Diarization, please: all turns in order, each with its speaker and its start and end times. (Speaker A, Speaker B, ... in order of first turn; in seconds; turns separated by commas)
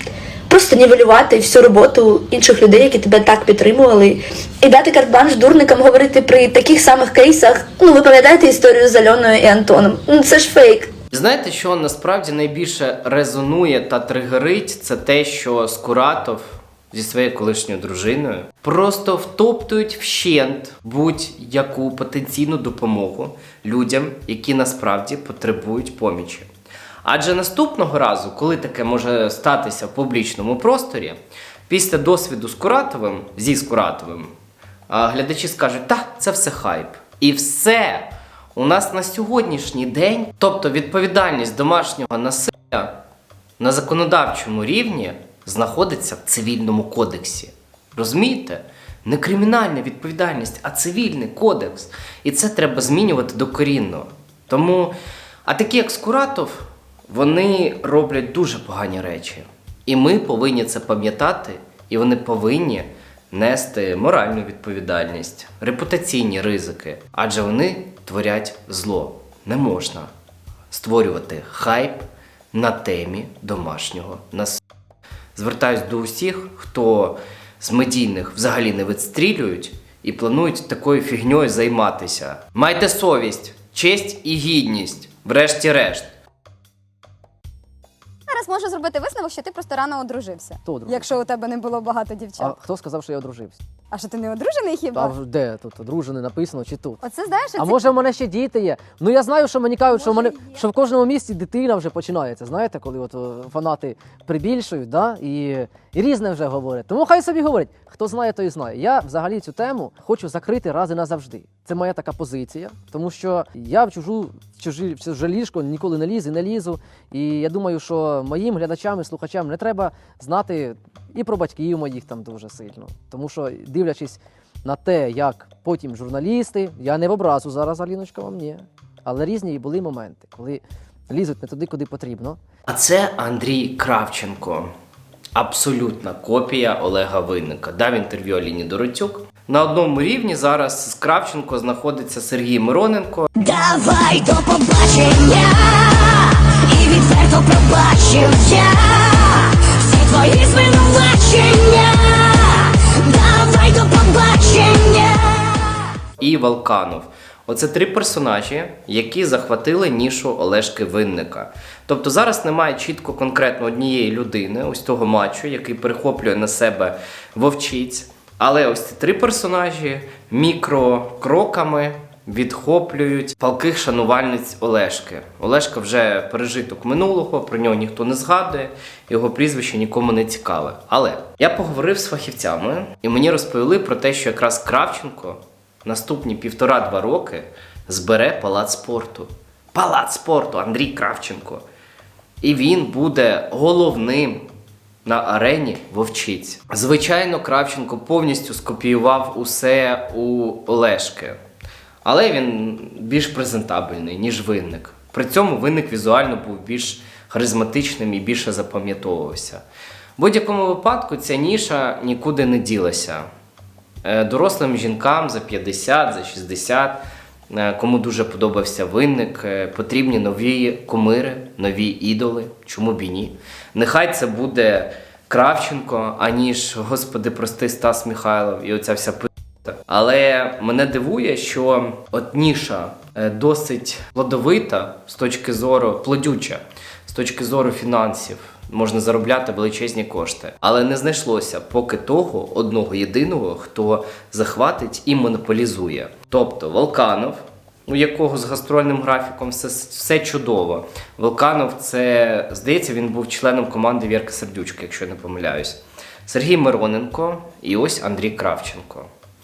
Speaker A: 0.5-10.9, Speaker B: 11.1-26.5, Speaker B: 27.0-31.2, Speaker B: 31.7-34.3, Speaker B: 34.9-43.0, Speaker B: 43.6-54.9, Speaker B: 55.5-70.1, Speaker B: 70.7-74.6, Speaker B: 75.3-86.1, Speaker C: 88.3-92.5, Speaker D: 90.6-91.1, Speaker D: 92.4-93.6, Speaker C: 93.9-95.1, Speaker D: 94.9-97.0, Speaker C: 97.0-97.8, Speaker D: 97.5-132.4, Speaker C: 99.9-100.6, Speaker B: 132.7-134.7, Speaker B: 135.3-143.3, Speaker E: 143.4-155.8, Speaker B: 156.2-191.6, Speaker B: 192.4-194.5, Speaker B: 195.1-201.4, Speaker B: 202.0-209.6, Speaker B: 210.2-213.3, Speaker B: 214.0-259.1